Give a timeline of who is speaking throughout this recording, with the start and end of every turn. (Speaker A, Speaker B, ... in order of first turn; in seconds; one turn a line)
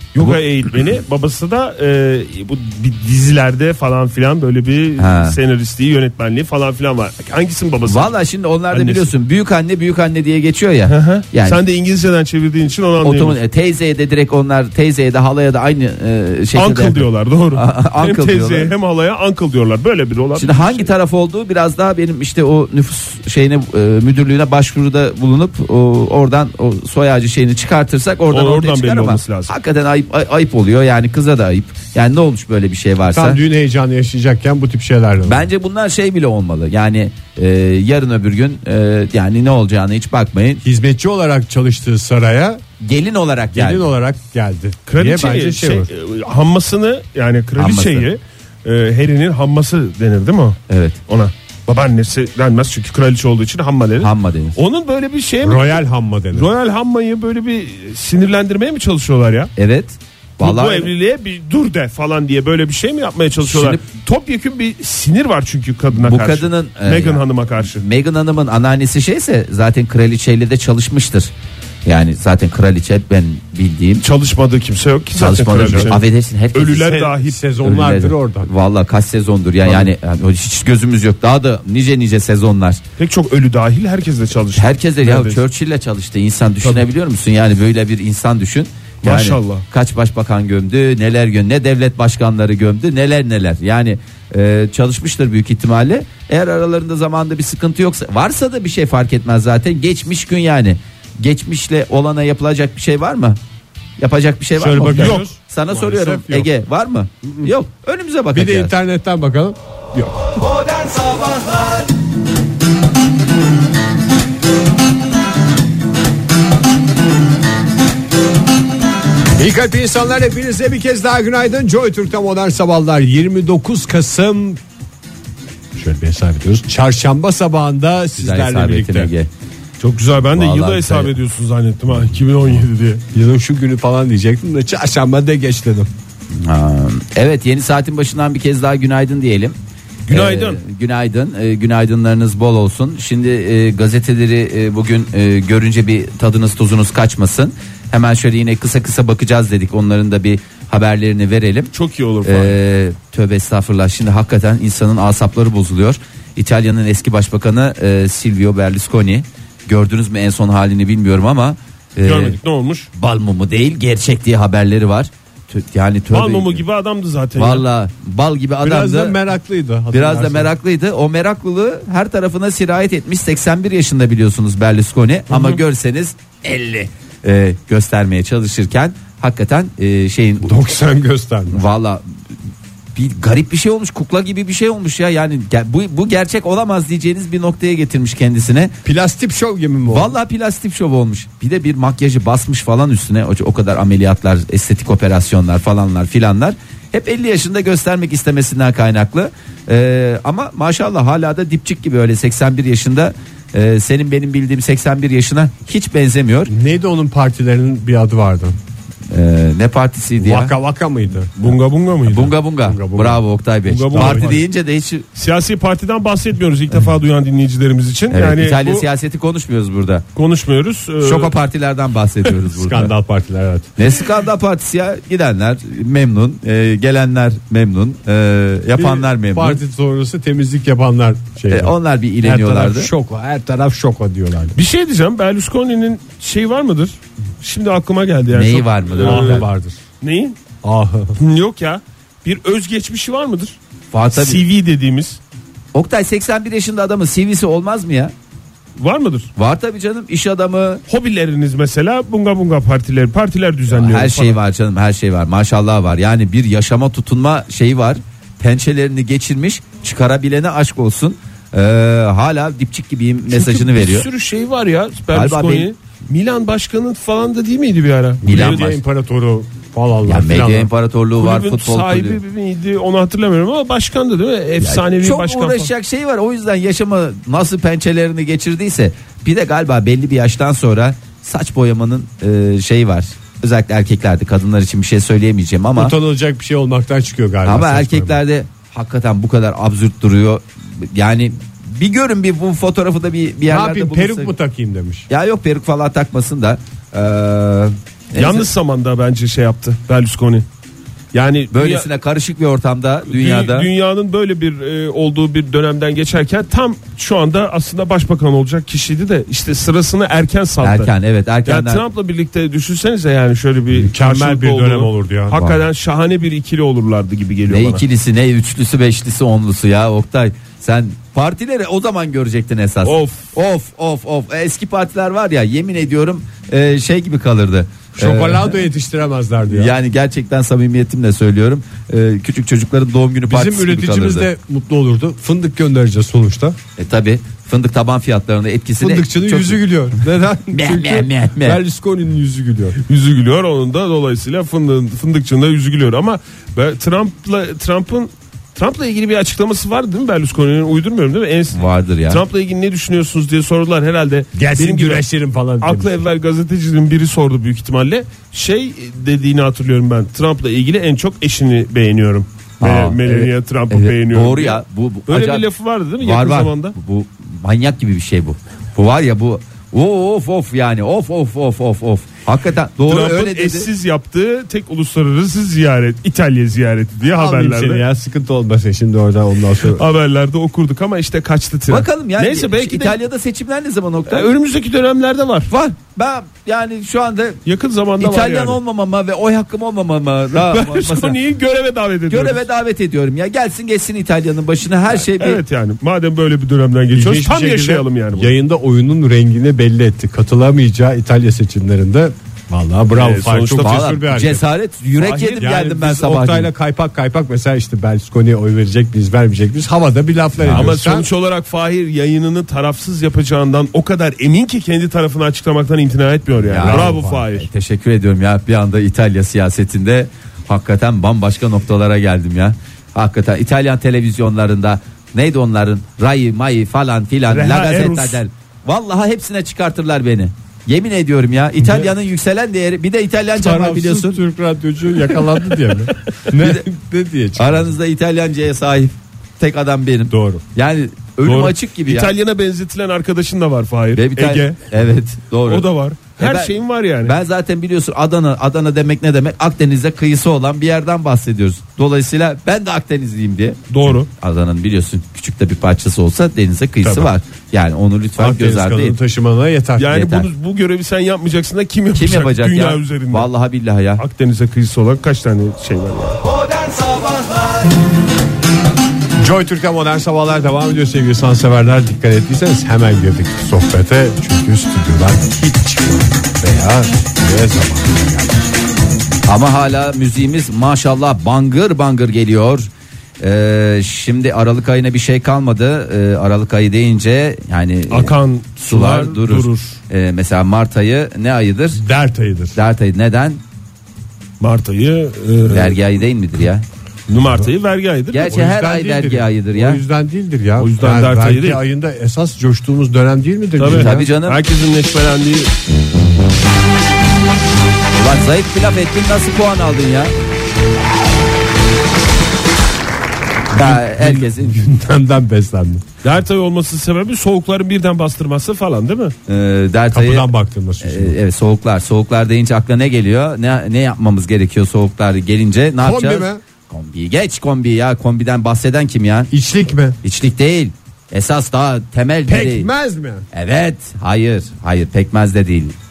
Speaker A: 0.1-8.1
Speaker B: 5.0-5.4
Speaker B: 7.9-11.6
Speaker A: 8.7-9.1
Speaker A: 10.9-13.4
Speaker B: 13.0-18.7
Speaker A: 16.6-20.9
Speaker B: 20.4-33.4
Speaker A: 28.3-29.5
Speaker C: 33.1-35.5
Speaker B: 35.2-40.6
Speaker C: 40.6-42.6
Speaker B: 42.8-43.9
Speaker C: 43.5-45.9
Speaker A: 44.9-55.8
Speaker B: 47.6-48.1
Speaker B: 50.7-51.0
Speaker B: 54.0-54.6
Speaker C: 55.4-56.5
Speaker A: 56.3-59.5
Speaker B: 59.6-60.9
Speaker A: 60.4-67.8
Speaker B: 63.4-63.8
Speaker B: 66.0-71.3
Speaker B: 71.8-74.1
Speaker A: 74.0-76.0
Speaker B: 75.2-77.1
Speaker A: 76.5-77.4
Speaker C: 76.8-78.5
Speaker B: 77.6-82.8
Speaker A: 83.0-85.4
Speaker B: 84.6-103.4
Speaker A: 89.0-89.7
Speaker B: 104.0-108.7
Speaker C: 104.6-106.5
Speaker A: 104.9-105.3
Speaker C: 107.2-107.5
Speaker C: 108.3-110.4
Speaker C: 119.4-124.6
Speaker C: 125.8-129.1
Speaker B: 128.2-129.3
Speaker A: 129.8-133.0
Speaker B: 130.3-131.1
Speaker C: 133.0-135.9
Speaker B: 136.4-139.6
Speaker A: 140.1-140.6
Speaker B: 140.1-151.7
Speaker A: 151.7-152.6
Speaker B: 152.2-162.4
Speaker A: 162.0-162.9
Speaker B: 162.9-166.6
Speaker A: 166.1-167.7
Speaker B: 167.4-169.2
Speaker C: 168.6-170.5
Speaker B: 169.9-180.6
Speaker A: 175.3-175.6
Speaker C: 180.4-181.6
Speaker B: 181.5-182.1
Speaker B: 183.0-188.8
Speaker C: 188.8-190.1
Speaker B: 189.9-206.5
Speaker C: 206.5-208.6
Speaker B: 209.1-210.5
Speaker C: 210.2-211.5
Speaker A: 211.4-212.4
Speaker B: 212.1-215.1
Speaker C: 212.6-213.2
Speaker A: 213.7-214.4
Speaker C: 213.9-214.4
Speaker A: 215.2-218.8
Speaker B: 218.1-220.0
Speaker A: 220.2-221.3
Speaker B: 221.0-222.9
Speaker C: 222.6-223.7
Speaker B: 223.8-229.6
Speaker C: 228.7-234.6
Speaker B: 231.5-232.9
Speaker A: 234.6-239.5
Speaker B: 238.3-239.4
Speaker C: 239.0-239.8
Speaker A: 240.0-240.4
Speaker C: 240.6-241.2
Speaker A: 241.2-243.6
Speaker B: 243.9-244.4
Speaker A: 244.1-245.2
Speaker B: 245.7-248.1
Speaker A: 248.8-249.3
Speaker B: 249.4-250.8
Speaker A: 250.9-254.4
Speaker B: 253.7-264.1
Speaker A: 263.3-268.8
Speaker B: 265.1-265.7
Speaker B: 268.2-268.7
Speaker C: 268.3-270.7
Speaker B: 270.1-272.2
Speaker A: 271.2-275.7
Speaker B: 274.6-285.9
Speaker C: 285.8-288.2
Speaker B: 287.4-294.3
Speaker C: 293.5-295.1
Speaker B: 295.1-298.5
Speaker A: 298.2-300.4
Speaker A: 301.1-301.9
Speaker B: 301.5-303.7
Speaker A: 303.1-310.9
Speaker B: 310.6-311.8
Speaker A: 311.5-317.8
Speaker C: 313.7-315.4
Speaker B: 315.3-315.6
Speaker B: 317.5-328.5
Speaker A: 322.8-323.3
Speaker C: 327.9-329.7
Speaker B: 329.5-334.3
Speaker C: 333.3-336.6
Speaker B: 336.8-339.7
Speaker C: 338.8-342.8
Speaker B: 340.5-341.6
Speaker A: 342.9-355.0
Speaker B: 351.5-352.2
Speaker C: 354.3-356.1
Speaker A: 355.6-366.8
Speaker B: 362.6-365.5
Speaker B: 366.0-373.7
Speaker A: 372.8-377.8
Speaker C: 377.0-379.9
Speaker A: 379.7-383.0
Speaker B: 381.7-384.3
Speaker A: 384.1-385.5
Speaker B: 385.5-387.4
Speaker A: 387.5-388.6
Speaker B: 388.0-391.2
Speaker A: 390.4-392.4
Speaker B: 392.1-395.4
Speaker A: 394.9-398.3
Speaker C: 396.9-404.4
Speaker A: 402.9-403.9
Speaker B: 403.6-406.5
Speaker A: 405.0-405.5
Speaker C: 405.4-411.1
Speaker B: 410.4-410.7
Speaker A: 410.5-417.5
Speaker B: 416.4-434.2
Speaker C: 416.6-417.3
Speaker A: 427.3-428.2
Speaker C: 433.4-437.8
Speaker A: 435.2-435.6
Speaker B: 436.3-436.7
Speaker B: 437.4-442.1
Speaker C: 440.1-440.4
Speaker A: 441.2-444.7
Speaker B: 443.9-445.7
Speaker A: 445.4-447.2
Speaker B: 446.2-458.9
Speaker A: 453.7-454.1
Speaker C: 456.8-457.1
Speaker C: 458.2-460.0
Speaker A: 459.8-463.3
Speaker B: 459.9-460.3
Speaker B: 461.9-464.0
Speaker A: 464.0-466.2
Speaker C: 469.2-478.5
Speaker B: 479.3-482.7
Speaker B: 483.2-491.8
Speaker A: 487.9-489.8
Speaker C: 491.8-492.6
Speaker B: 492.6-493.4
Speaker A: 494.4-495.8
Speaker B: 495.4-496.6
Speaker A: 497.1-498.3
Speaker B: 498.1-499.8
Speaker C: 498.2-504.1
Speaker A: 500.6-501.6
Speaker A: 503.6-505.5
Speaker B: 503.7-504.4
Speaker B: 507.9-510.1
Speaker B: 513.5-514.6
Speaker C: 513.5-515.8
Speaker A: 516.0-519.1
Speaker B: 519.3-520.3
Speaker C: 519.9-521.2
Speaker B: 520.8-529.3
Speaker C: 525.8-526.4
Speaker C: 529.3-530.0
Speaker B: 530.0-532.7
Speaker C: 532.3-533.2
Speaker B: 533.3-535.8